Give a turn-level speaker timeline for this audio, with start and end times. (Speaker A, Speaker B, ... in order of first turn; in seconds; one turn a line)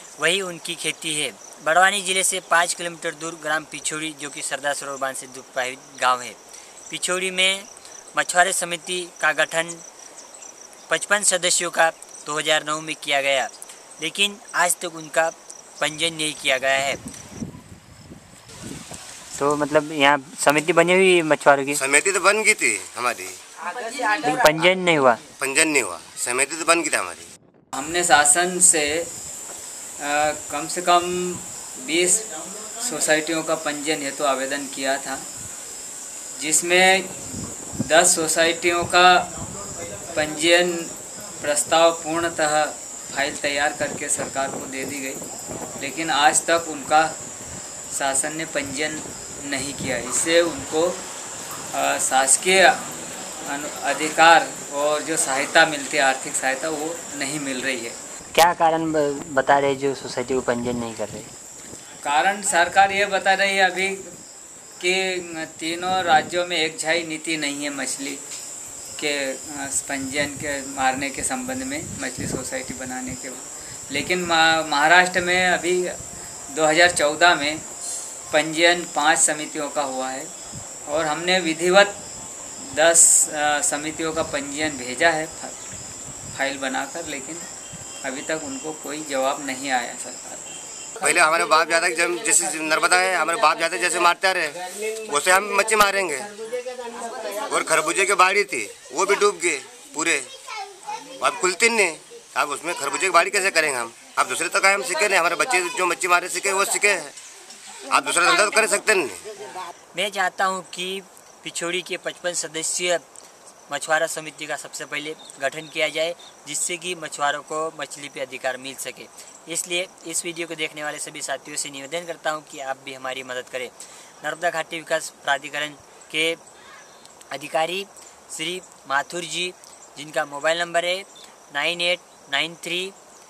Speaker A: 0.2-9.8
Speaker A: 10.9-17.0
Speaker A: 19.3-21.8
Speaker B: 21.8-23.4
Speaker A: 24.0-25.2
Speaker B: 25.4-27.3
Speaker C: 27.8-29.1
Speaker C: 30.0-35.2
Speaker C: 36.4-37.1
Speaker C: 37.9-39.3
Speaker C: 40.1-45.2
Speaker C: 45.8-47.1
Speaker C: 47.9-51.0
Speaker C: 51.7-52.8
Speaker C: 53.5-58.0
Speaker A: 58.3-61.3
Speaker C: 62.0-64.1
Speaker C: 64.8-68.2
Speaker C: 69.0-76.0
Speaker C: 76.5-77.7
Speaker C: 78.3-80.3
Speaker C: 80.9-82.0
Speaker C: 82.6-85.7
Speaker C: 86.3-87.5
Speaker C: 88.0-90.6
Speaker B: 91.0-96.3
Speaker B: 97.4-100.3
Speaker B: 101.2-107.1
Speaker B: 107.9-109.2
Speaker A: 109.9-113.0
Speaker A: 113.7-126.4
Speaker A: 127.3-132.9